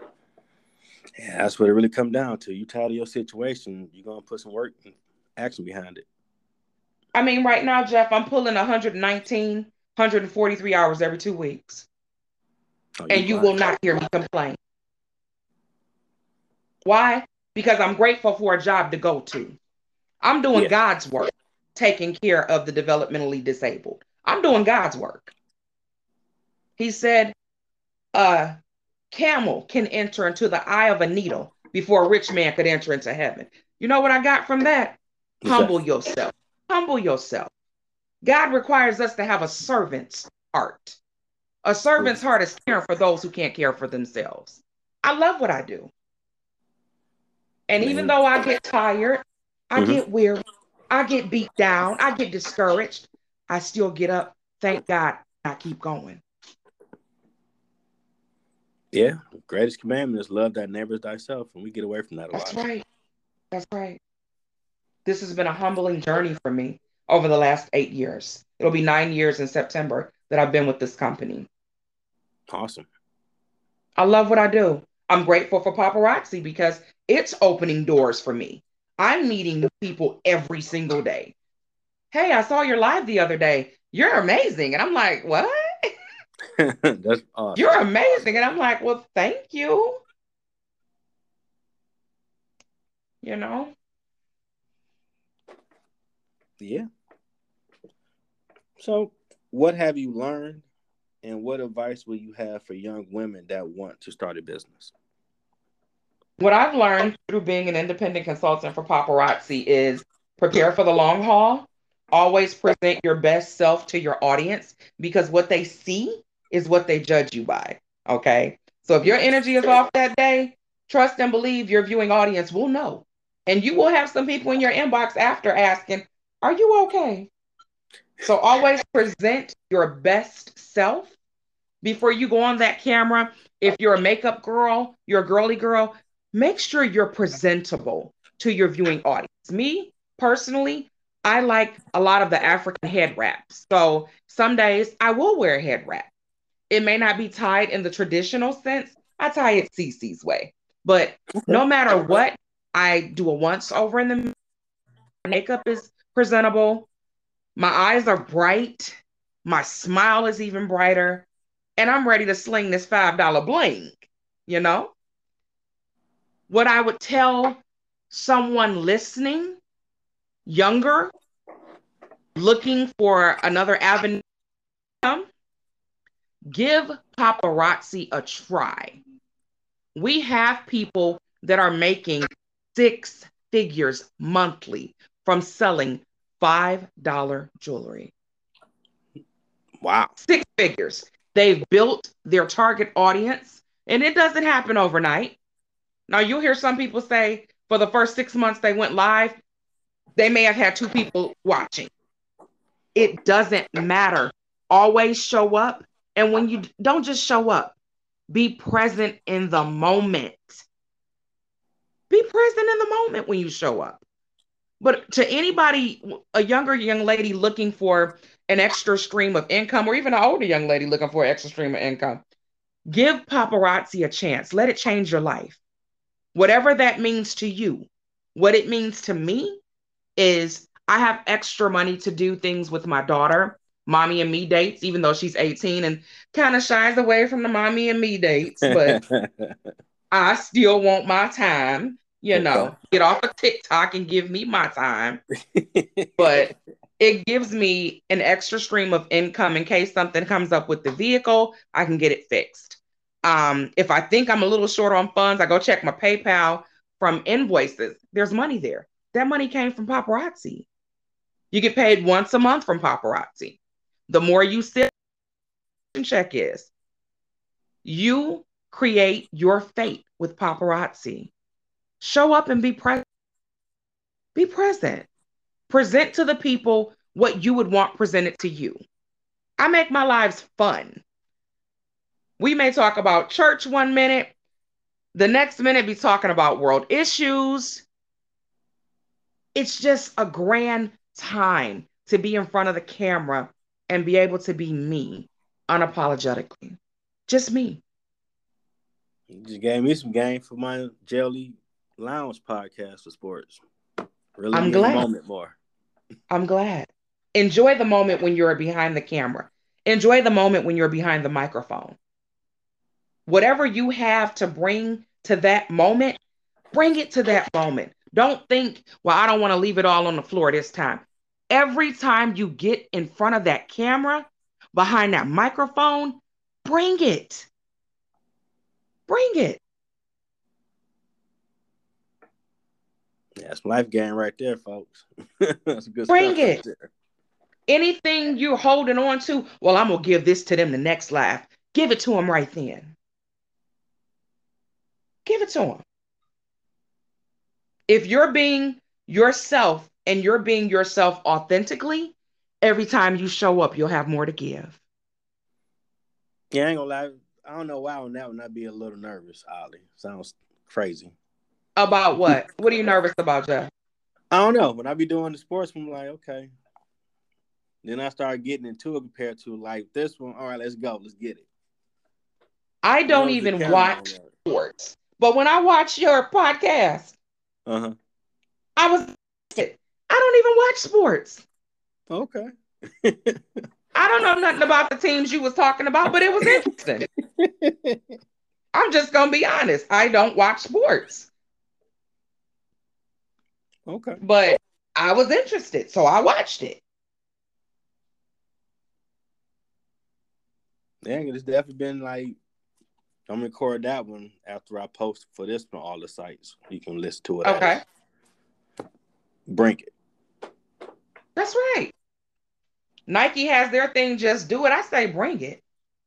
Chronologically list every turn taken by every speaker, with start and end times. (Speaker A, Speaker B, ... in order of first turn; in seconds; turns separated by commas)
Speaker A: 1.2-6.0, Speaker B: 7.1-11.9, Speaker A: 13.0-13.5, Speaker B: 13.1-14.6, Speaker B: 16.8-19.6, Speaker B: 20.2-25.3, Speaker B: 26.8-27.3, Speaker B: 28.1-28.6, Speaker B: 29.1-37.5, Speaker A: 35.4-35.7, Speaker B: 38.2-41.0, Speaker B: 41.6-45.9, Speaker B: 47.7-56.2, Speaker A: 47.8-48.2, Speaker A: 49.8-50.0, Speaker A: 58.9-62.6, Speaker B: 62.3-62.8, Speaker B: 63.5-64.0, Speaker B: 65.0-71.5, Speaker A: 72.5-72.9, Speaker B: 74.0-81.3, Speaker B: 82.1-85.9, Speaker A: 86.6-87.9, Speaker B: 87.5-90.0, Speaker B: 93.2-93.7, Speaker A: 96.6-96.8, Speaker A: 98.8-100.6, Speaker A: 101.2-104.9, Speaker B: 106.4-127.3, Speaker B: 128.2-131.1, Speaker B: 131.8-146.1, Speaker B: 146.7-154.3, Speaker A: 151.3-151.6, Speaker B: 155.2-156.9, Speaker B: 157.6-164.9, Speaker B: 166.5-169.6, Speaker B: 170.4-171.1, Speaker B: 172.3-174.2, Speaker B: 175.0-175.3, Speaker B: 176.5-179.0, Speaker B: 179.9-188.1, Speaker A: 189.8-190.1, Speaker B: 190.2-195.4, Speaker B: 196.1-199.4, Speaker B: 200.2-201.9, Speaker B: 202.9-207.8, Speaker B: 208.3-210.6, Speaker B: 212.1-214.0, Speaker B: 214.8-222.2, Speaker B: 222.9-225.6, Speaker B: 226.3-229.6, Speaker B: 230.2-239.0, Speaker A: 238.6-239.5, Speaker B: 240.1-245.2, Speaker A: 242.3-242.7, Speaker A: 245.5-246.4, Speaker B: 246.2-260.6, Speaker B: 261.5-264.9, Speaker B: 265.9-266.7, Speaker B: 267.8-271.3, Speaker B: 272.0-273.0, Speaker B: 274.3-275.1, Speaker B: 275.7-278.8, Speaker B: 279.6-281.0, Speaker B: 282.4-284.3, Speaker B: 285.1-287.8, Speaker B: 289.5-297.8, Speaker A: 299.3-303.6, Speaker A: 304.4-305.6, Speaker B: 304.5-305.1, Speaker B: 306.3-312.0, Speaker B: 313.3-316.2, Speaker B: 316.7-327.5, Speaker B: 329.1-329.6, Speaker A: 333.4-336.9, Speaker B: 336.1-336.6, Speaker B: 337.7-342.9, Speaker B: 345.2-345.8, Speaker B: 347.9-354.8, Speaker A: 356.5-361.1, Speaker B: 361.8-363.7, Speaker A: 364.3-366.5, Speaker A: 367.8-371.4, Speaker B: 372.8-377.1, Speaker A: 373.1-374.3, Speaker A: 377.7-377.9, Speaker B: 378.8-381.4, Speaker A: 382.1-382.5, Speaker A: 383.0-383.4, Speaker B: 383.9-387.1, Speaker A: 387.4-388.0, Speaker B: 388.7-391.3, Speaker A: 393.9-394.2, Speaker B: 394.2-396.8, Speaker A: 401.0-402.4, Speaker A: 403.3-407.8, Speaker B: 407.4-407.8, Speaker A: 409.5-409.9, Speaker B: 411.4-411.9, Speaker B: 413.1-415.6